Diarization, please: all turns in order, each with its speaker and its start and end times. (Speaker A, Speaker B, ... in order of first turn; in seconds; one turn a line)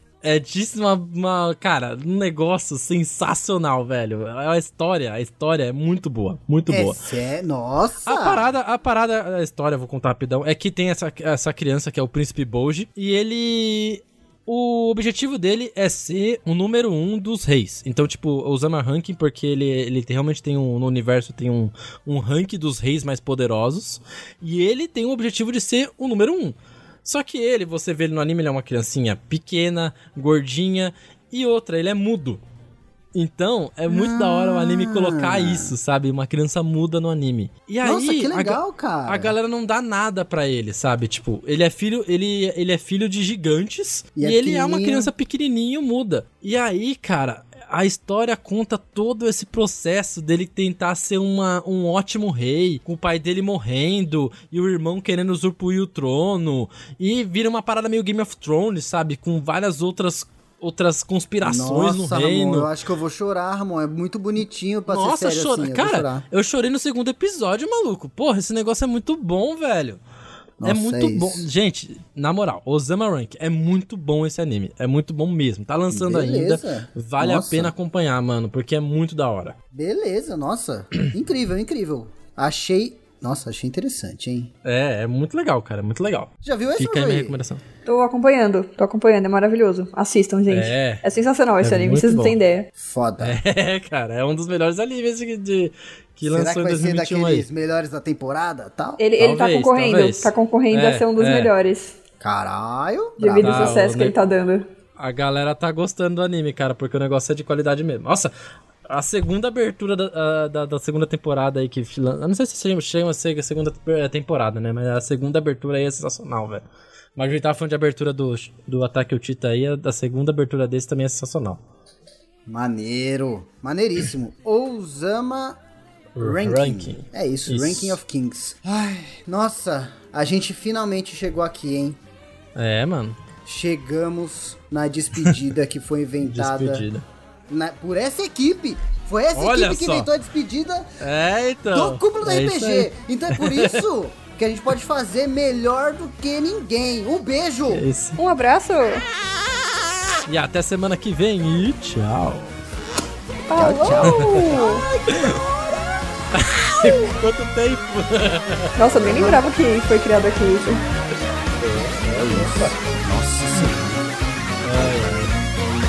Speaker A: 0.2-7.0
Speaker B: 6.7-8.4
Speaker A: 8.0-32.4
Speaker A: 33.1-62.7
Speaker B: 33.9-35.7
Speaker B: 37.8-39.3
Speaker B: 44.1-45.1
Speaker B: 61.4-66.2
Speaker A: 64.9-70.0
Speaker B: 70.6-71.5
Speaker A: 70.6-79.5
Speaker B: 75.9-77.7
Speaker B: 79.7-84.5
Speaker A: 84.6-87.6
Speaker B: 86.4-87.4
Speaker C: 87.8-92.7
Speaker A: 90.5-91.0
Speaker A: 91.6-92.4
Speaker B: 92.8-93.4
Speaker A: 93.2-97.5
Speaker B: 96.3-99.0
Speaker C: 99.0-102.0
Speaker A: 99.2-101.5
Speaker B: 102.2-103.8
Speaker C: 103.2-104.7
Speaker A: 103.4-104.2
Speaker A: 105.0-108.3
Speaker A: 108.8-116.6
Speaker A: 117.2-121.6
Speaker B: 122.5-125.6
Speaker A: 126.2-128.0
Speaker B: 126.2-132.0
Speaker A: 132.5-133.2
Speaker B: 133.4-136.8
Speaker A: 136.2-137.0
Speaker B: 137.5-141.0
Speaker A: 139.3-140.1
Speaker A: 141.0-143.8
Speaker B: 141.7-147.8
Speaker A: 147.7-148.2
Speaker C: 148.2-149.1
Speaker A: 150.3-152.6
Speaker C: 153.5-154.9
Speaker B: 153.5-155.8
Speaker A: 154.0-154.3
Speaker A: 155.1-155.4
Speaker A: 156.3-158.9
Speaker C: 158.7-160.8
Speaker B: 159.0-159.4
Speaker A: 161.6-162.8
Speaker B: 162.1-164.0
Speaker A: 164.6-165.3